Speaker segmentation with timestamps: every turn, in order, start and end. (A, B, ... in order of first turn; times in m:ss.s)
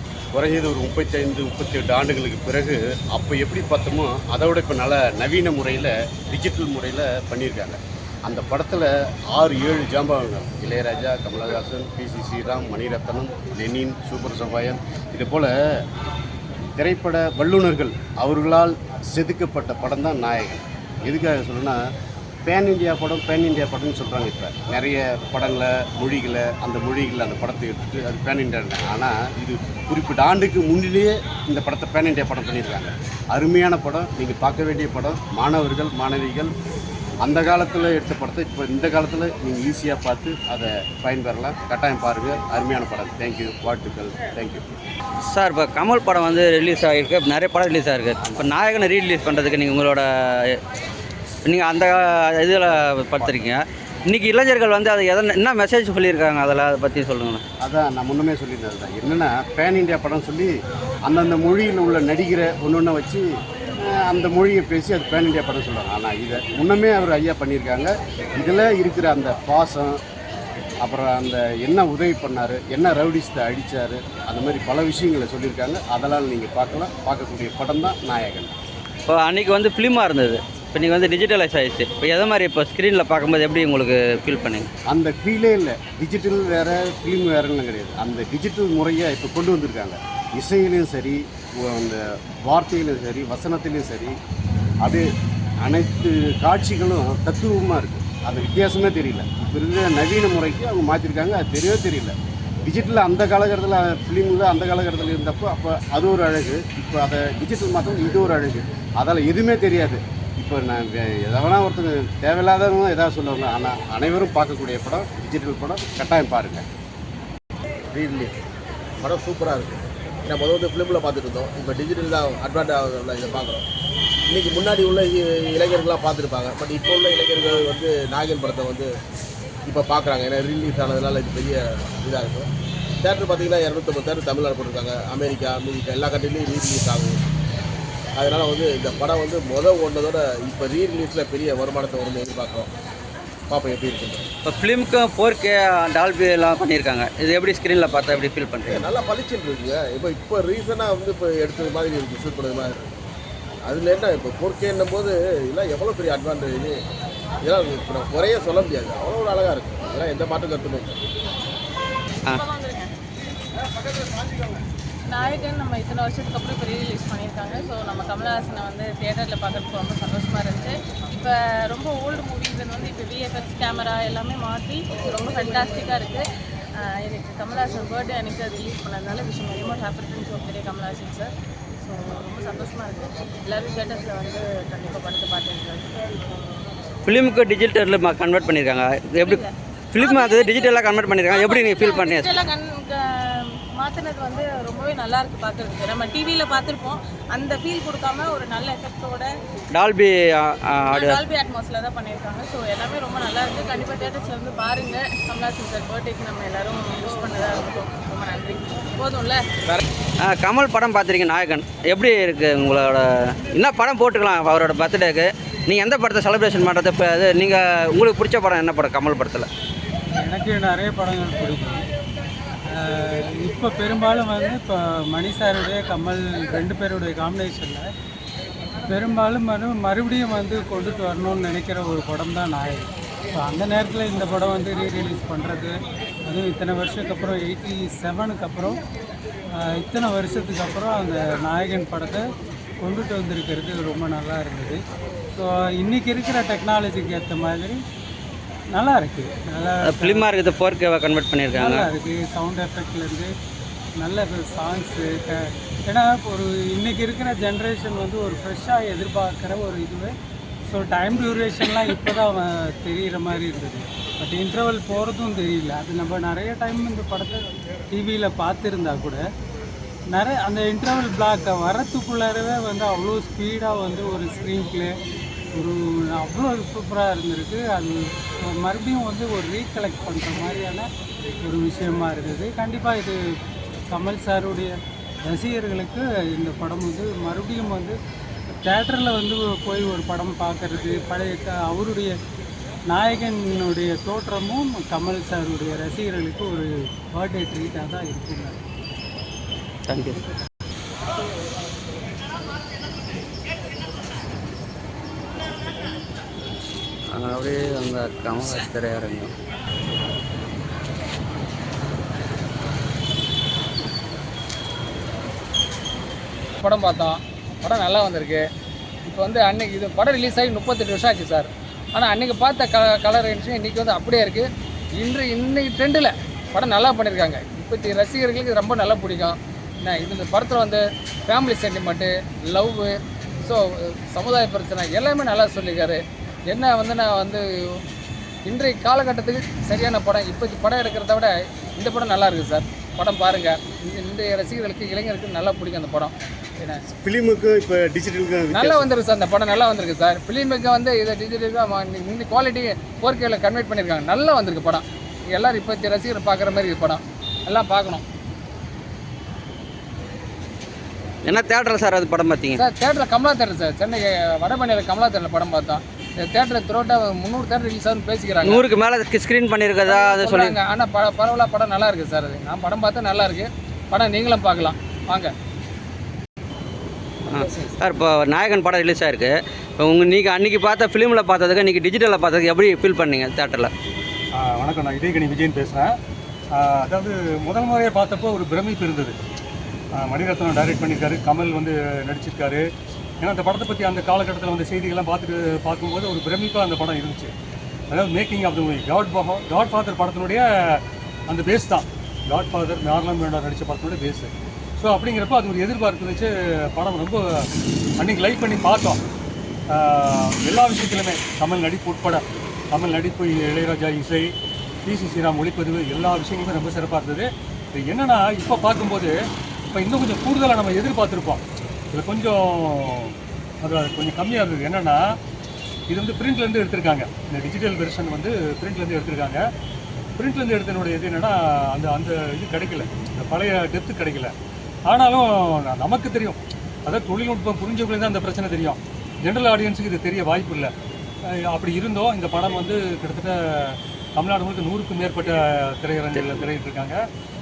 0:00.3-0:15.5 A
0:16.8-0:21.8 A
0:22.4-0:36.5 A
0:37.2-0:44.7 A
0:45.3-0:50.0 B
0:48.2-0:48.5 A
0:51.4-0:57.4 B
0:57.6-1:00.5 A
1:01.1-1:03.2 A
1:03.9-1:10.0 A
1:10.8-1:18.5 A
1:19.1-1:24.7 B
1:24.9-1:34.1 A
1:35.6-1:42.1 A
1:42.6-1:56.6 A
1:57.9-1:58.3 C
1:59.0-2:03.6 C
2:04.3-2:08.9 C
2:09.6-2:12.5 C
2:13.0-2:17.2 C
2:18.2-2:22.7 C
2:23.5-2:24.2 C
2:24.4-2:28.8 B
2:28.7-2:32.8 C
2:33.6-2:36.8 C
2:37.4-2:41.0 C
2:42.3-2:42.9 D
2:45.0-2:56.2 D
2:56.8-3:01.3 D
3:01.8-3:06.0 D
3:07.0-3:09.4 B
3:09.2-3:19.3 D
3:09.9-3:12.4 B
3:19.7-3:21.2 B
3:20.9-3:29.5 D
3:30.2-3:39.5 B
3:40.2-3:41.8 E
3:42.7-3:47.8 E
3:48.9-3:58.8 E
3:59.6-4:02.2 E
4:02.8-4:04.8 E
4:05.4-4:07.8 E
4:08.7-4:10.3 E
4:09.9-4:11.9 B
4:11.5-4:13.3 E
4:14.0-4:20.1 E
4:20.7-4:29.2 E
4:30.1-4:34.9 E
4:35.6-4:40.9 E
4:41.4-4:43.2 E
4:43.9-4:44.7 E
4:45.2-4:48.0 E
4:48.6-4:52.1 E
4:52.9-4:58.6 E
4:59.9-5:00.2 B
5:07.2-5:09.3 B
5:16.6-5:18.4 F
5:19.0-5:37.8 F
5:38.4-5:46.8 F
5:46.9-5:48.9 A
5:48.5-5:58.0 F
6:01.2-6:02.5 B
6:02.5-6:08.6 F
6:08.4-6:10.5 B
6:09.8-6:15.3 F
6:17.3-6:23.7 B
6:17.3-6:17.7 F
6:24.3-6:26.0 G
6:26.5-6:29.2 G
6:30.0-6:32.6 G
6:33.2-6:37.3 G
6:37.9-6:47.4 G
6:48.0-6:49.0 G
6:49.7-6:54.3 G
6:54.8-6:59.2 G
6:59.7-7:05.2 G
7:05.9-7:09.4 G
7:10.2-7:14.3 G
7:14.9-7:20.7 G
7:21.5-7:27.0 G
7:26.1-7:26.4 B